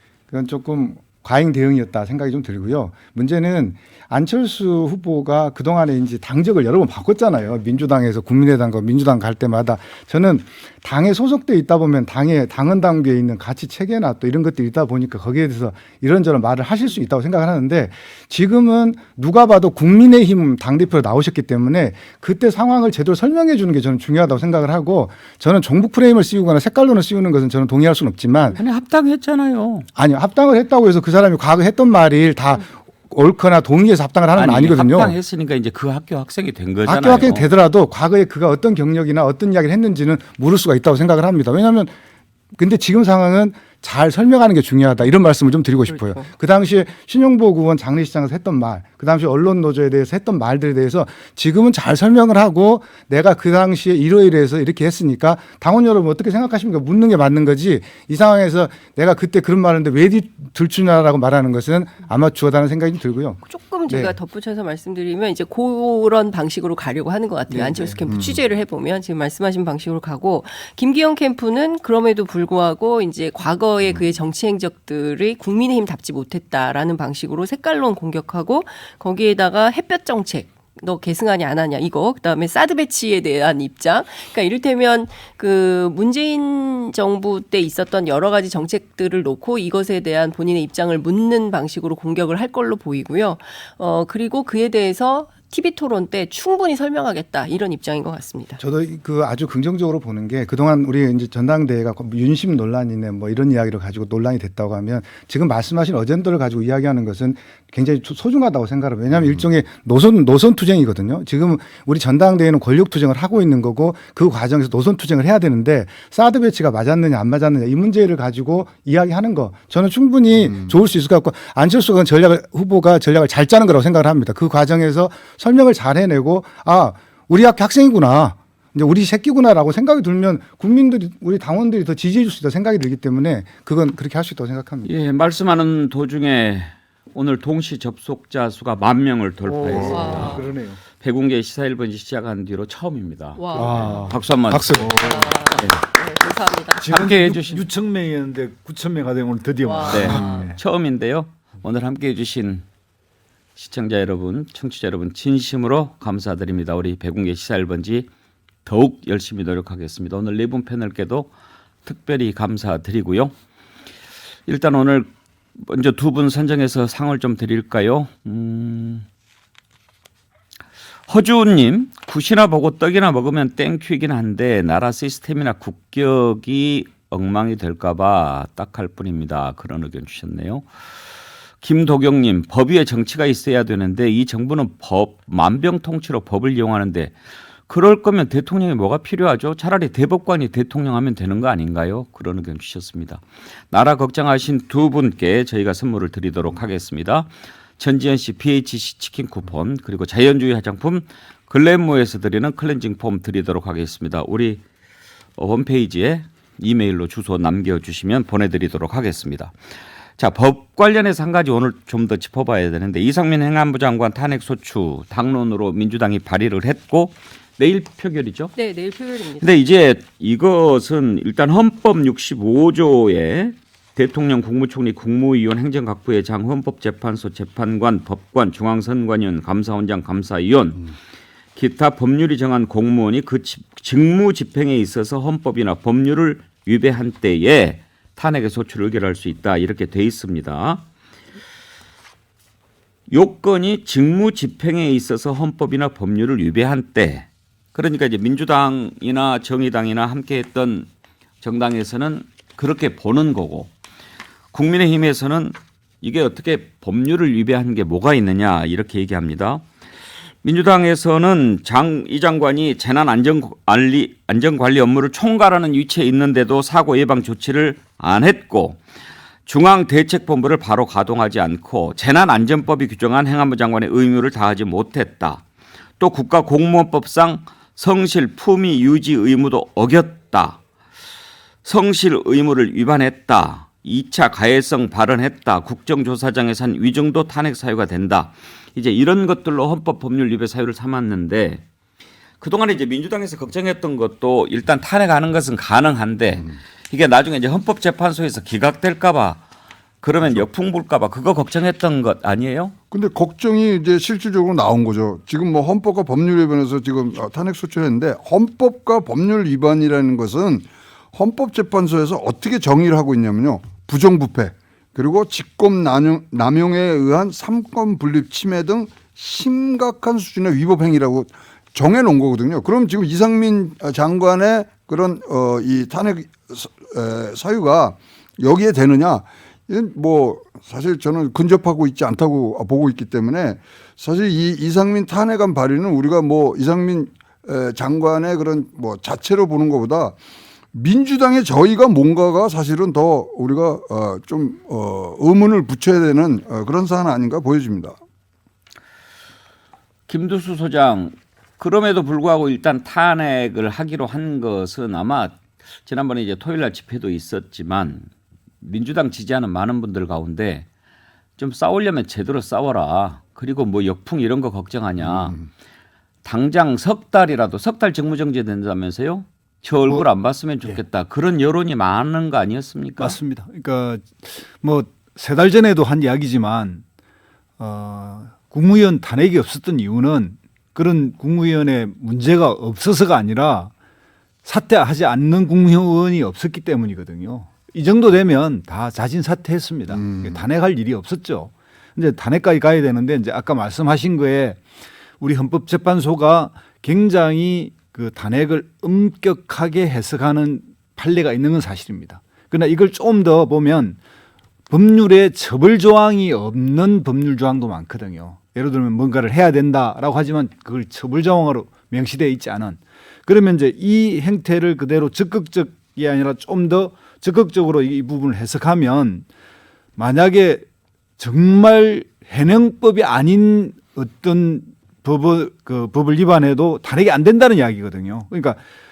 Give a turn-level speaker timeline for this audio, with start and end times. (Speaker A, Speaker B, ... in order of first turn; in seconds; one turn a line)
Speaker A: 0.3-28.6
Speaker B: 28.6-29.9
Speaker A: 30.0-35.2
Speaker B: 34.4-37.5
Speaker A: 36.9-41.9
Speaker A: 42.6-64.2
Speaker C: 45.9-46.3
Speaker C: 63.5-98.6
Speaker A: 67.5-68.0
Speaker A: 98.6-134.9
Speaker B: 134.8-140.4
Speaker D: 139.7-140.8
Speaker C: 139.8-140.5
Speaker B: 141.0-145.8
Speaker C: 143.4-143.9
Speaker A: 143.6-145.2
Speaker C: 144.9-146.9
Speaker D: 146.8-150.6
Speaker B: 146.8-147.7
Speaker C: 149.7-150.5
Speaker B: 149.9-152.7
Speaker B: 153.6-158.1
Speaker B: 158.7-161.3
Speaker B: 161.8-163.3
Speaker B: 164.5-169.1
Speaker B: 171.1-180.7
Speaker B: 181.6-187.2
Speaker B: 187.7-204.6
Speaker B: 205.4-209.5
Speaker B: 210.2-218.5
Speaker C: 218.6-219.4
Speaker B: 219.4-230.9
Speaker B: 231.6-240.8
Speaker B: 243.1-250.9
Speaker B: 251.4-253.7
Speaker B: 254.5-259.6
Speaker B: 260.4-268.8
Speaker B: 269.5-275.4
Speaker B: 276.0-280.6
Speaker B: 281.6-291.6
Speaker B: 292.4-299.4
Speaker B: 300.0-302.8
Speaker E: 302.9-340.2
Speaker E: 340.7-348.0
Speaker B: 350.1-358.1
Speaker B: 358.6-360.7
Speaker B: 361.4-365.4
Speaker B: 366.2-373.2
Speaker D: 373.0-376.8
Speaker D: 377.6-383.7
Speaker D: 384.4-394.6
Speaker E: 390.0-390.4
Speaker D: 395.2-404.0
Speaker D: 404.7-419.3
Speaker D: 420.0-420.6
Speaker D: 421.2-428.6